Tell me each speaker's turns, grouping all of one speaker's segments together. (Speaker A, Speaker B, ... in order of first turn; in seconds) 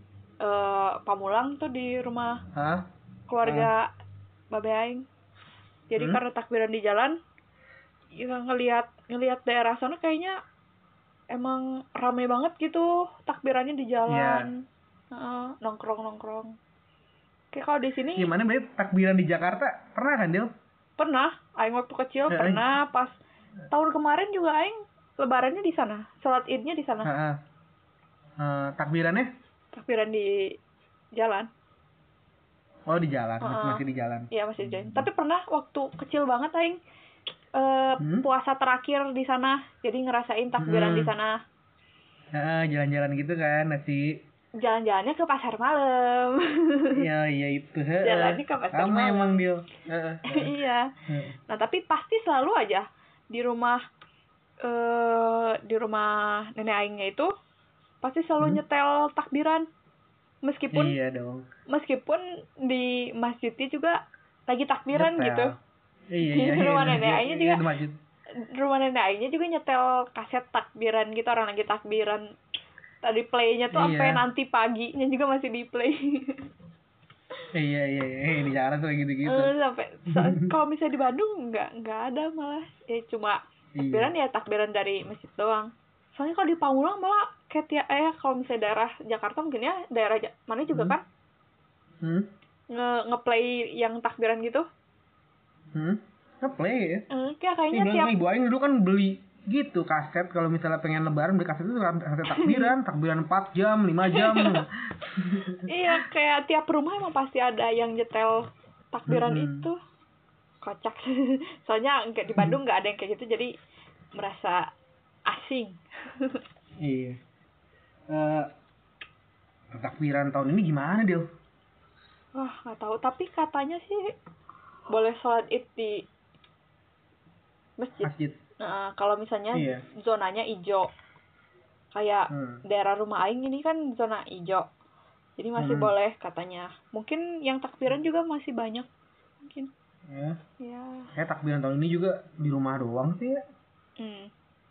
Speaker A: 0.4-2.4, 3.3-3.9, 4.5-5.0, 5.9-7.2, 8.2-10.3, 11.3-16.5, 17.5-18.3, 21.0-23.1, 23.7-27.1, 29.7-30.5, 31.1-31.5, 33.4-36.8, 37.5-41.4, 44.6-47.0, 48.0-49.4, 50.3-50.9, 51.5-53.8, 54.6-57.3, 58.0-59.6, 60.4-61.0, 61.7-65.5, 66.2-67.6, 68.5-72.2, 73.0-76.5, 79.2-83.4, 83.9-91.0, 92.7-94.7, 97.1-98.1, 102.3-102.7, 104.1-104.6, 105.7-109.8, 110.6-113.5, 114.2-114.7, 115.3-116.4, 122.3-124.1, 124.9-126.0, 127.8-128.1, 128.6-130.9, 131.9-134.7, 135.4-138.9, 139.4-139.7, 140.6-141.1, 144.0-144.3
Speaker B: 2.5-2.8, 3.4-3.7, 14.1-14.5, 18.1-20.5, 22.3-22.6, 27.0-27.4, 28.4-29.3, 32.9-35.0, 38.0-38.2, 40.6-41.1, 42.3-44.2, 46.9-50.5, 51.1-51.3, 60.7-61.4, 64.9-65.5, 66.1-68.0, 73.7-74.2, 77.5-79.5, 80.1-80.5, 83.8-84.1, 92.0-92.3, 95.7-97.0, 97.7-105.7, 109.0-109.7, 116.8-117.2, 118.1-118.5, 119.7-121.2, 128.0-128.4, 129.5-129.8, 132.3-132.6, 135.6-135.9, 140.1-140.4, 141.2-143.4